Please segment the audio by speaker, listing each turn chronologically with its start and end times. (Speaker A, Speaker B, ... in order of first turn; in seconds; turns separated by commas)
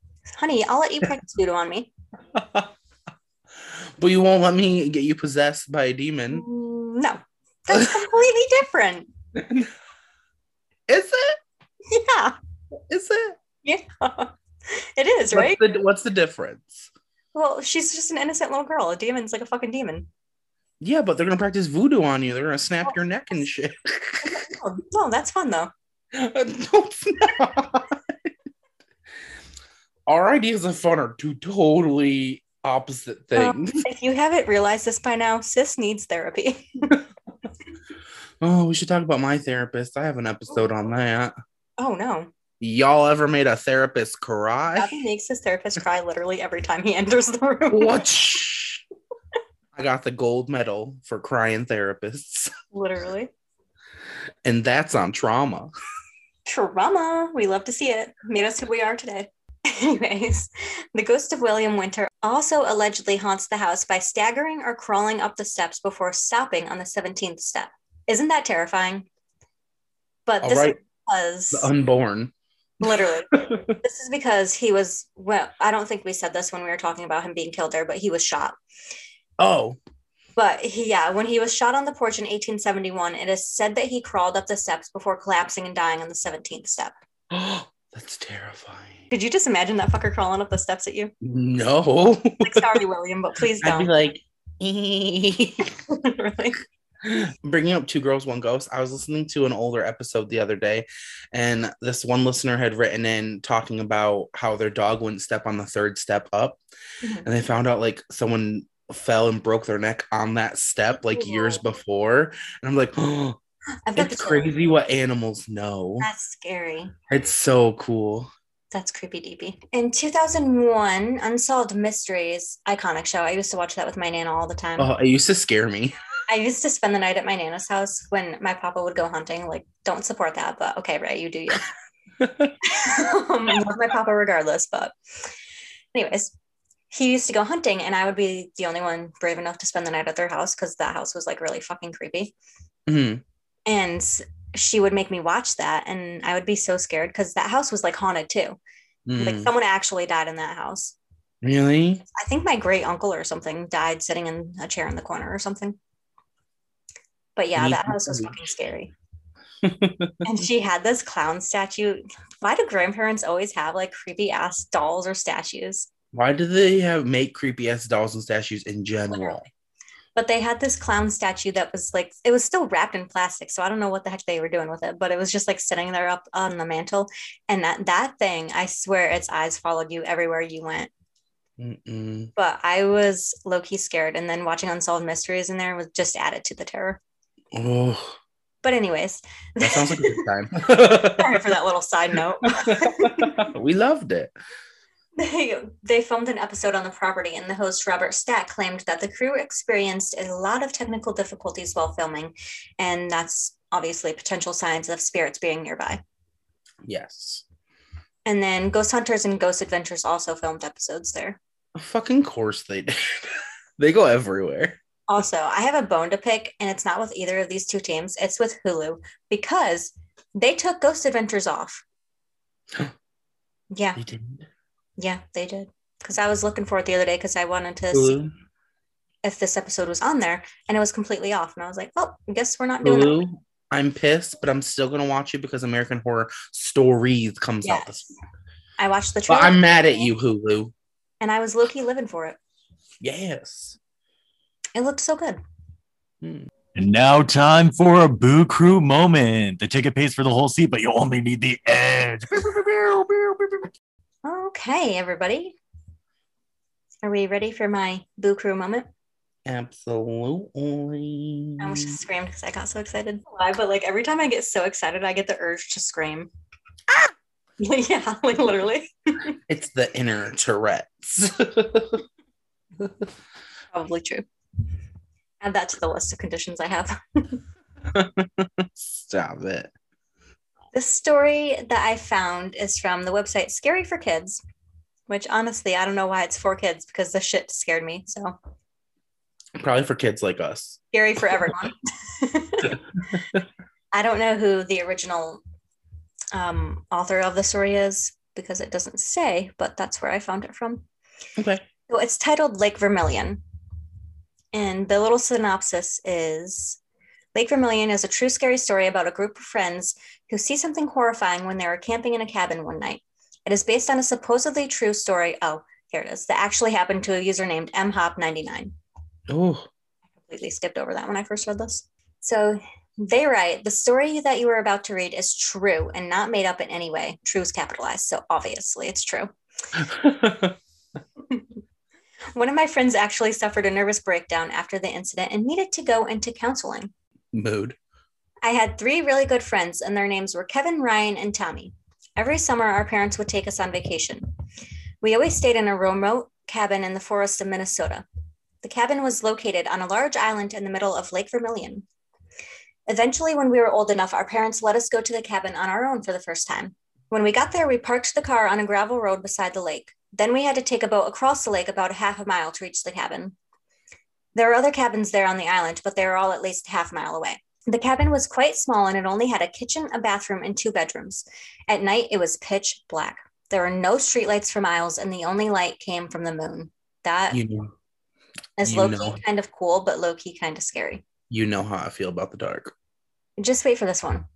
Speaker A: 0.3-1.9, Speaker B: 2.3-2.7, Speaker B: 4.0-6.5, Speaker A: 6.3-9.1, Speaker B: 9.3-9.7, Speaker B: 10.9-11.4, Speaker A: 11.9-12.4, Speaker B: 12.9-13.4, Speaker A: 13.6-15.6, Speaker B: 15.3-16.9, Speaker A: 17.3-20.1, Speaker B: 20.8-24.4, Speaker A: 24.2-25.7, Speaker B: 26.1-28.3, Speaker B: 30.1-33.8, Speaker A: 33.4-36.9, Speaker B: 38.4-41.3, Speaker A: 41.8-42.3, Speaker B: 42.6-45.0, Speaker A: 44.8-48.0, Speaker B: 47.7-48.8, Speaker B: 49.7-52.5, Speaker A: 52.7-53.3, Speaker B: 54.5-55.7, Speaker A: 56.5-69.1, Speaker A: 70.3-71.7, Speaker B: 70.4-70.8, Speaker B: 71.5-72.3, Speaker A: 72.8-78.6, Speaker B: 72.8-73.7, Speaker B: 79.4-79.8, Speaker A: 80.4-86.9, Speaker B: 87.3-89.1, Speaker A: 89.1-91.1, Speaker B: 91.2-92.7, Speaker A: 92.4-94.0, Speaker B: 93.6-95.7, Speaker A: 95.8-96.6, Speaker B: 97.0-106.6, Speaker A: 107.0-107.3, Speaker B: 107.2-113.4, Speaker A: 111.2-111.6, Speaker A: 113.9-114.5, Speaker B: 114.0-116.1, Speaker A: 116.0-116.9, Speaker B: 117.1-118.3, Speaker A: 118.7-124.9, Speaker B: 124.8-126.0, Speaker A: 126.3-131.7, Speaker B: 132.2-132.5, Speaker A: 132.6-135.3, Speaker A: 135.9-136.3, Speaker A: 136.9-142.3, Speaker B: 142.9-143.2, Speaker A: 143.7-148.6, Speaker B: 149.1-149.5, Speaker A: 149.2-151.0, Speaker B: 151.4-152.0, Speaker A: 152.1-155.8, Speaker A: 157.4-158.9, Speaker B: 157.6-158.4, Speaker B: 159.6-160.2, Speaker A: 160.2-165.9, Speaker B: 166.1-169.5, Speaker A: 169.1-169.4, Speaker A: 170.2-180.9, Speaker B: 181.6-182.3, Speaker A: 182.4-187.0, Speaker B: 187.5-188.2, Speaker A: 188.6-193.4, Speaker B: 189.6-191.4, Speaker B: 192.6-194.3, Speaker A: 195.2-206.0, Speaker B: 206.8-207.4, Speaker A: 208.3-211.4, Speaker B: 211.8-214.8, Speaker A: 215.1-221.8, Speaker A: 223.7-224.0, Speaker B: 224.0-224.5, Speaker A: 225.0-228.2, Speaker B: 227.9-228.3, Speaker A: 229.2-233.2, Speaker B: 232.8-238.1, Speaker A: 237.6-237.9, Speaker A: 238.8-240.1, Speaker B: 239.3-240.7, Speaker A: 241.2-242.4, Speaker B: 243.0-243.8, Speaker A: 244.8-245.4, Speaker B: 246.2-246.5, Speaker C: 246.8-253.7, Speaker A: 254.2-255.6, Speaker A: 257.0-258.9, Speaker B: 259.4-261.9, Speaker A: 261.6-266.3, Speaker A: 267.6-269.4, Speaker B: 269.5-272.0, Speaker A: 273.7-274.3, Speaker A: 275.4-277.4, Speaker B: 277.9-279.7, Speaker A: 280.7-284.4, Speaker A: 285.1-288.4, Speaker B: 289.6-290.8, Speaker A: 290.9-292.8, Speaker B: 292.7-293.4, Speaker A: 293.9-295.4, Speaker A: 296.3-300.9, Speaker B: 301.4-301.6, Speaker A: 301.9-303.4, Speaker A: 304.5-306.8, Speaker A: 307.4-318.7, Speaker B: 319.3-319.7, Speaker A: 320.3-329.3, Speaker B: 329.8-330.6, Speaker A: 332.4-336.9, Speaker B: 337.3-337.8, Speaker A: 338.4-344.3, Speaker A: 345.0-348.1, Speaker A: 348.6-351.9, Speaker A: 352.9-363.4, Speaker A: 364.4-377.4, Speaker B: 377.3-377.7, Speaker A: 378.6-381.0, Speaker B: 378.6-379.2, Speaker B: 381.3-382.7, Speaker A: 383.4-384.3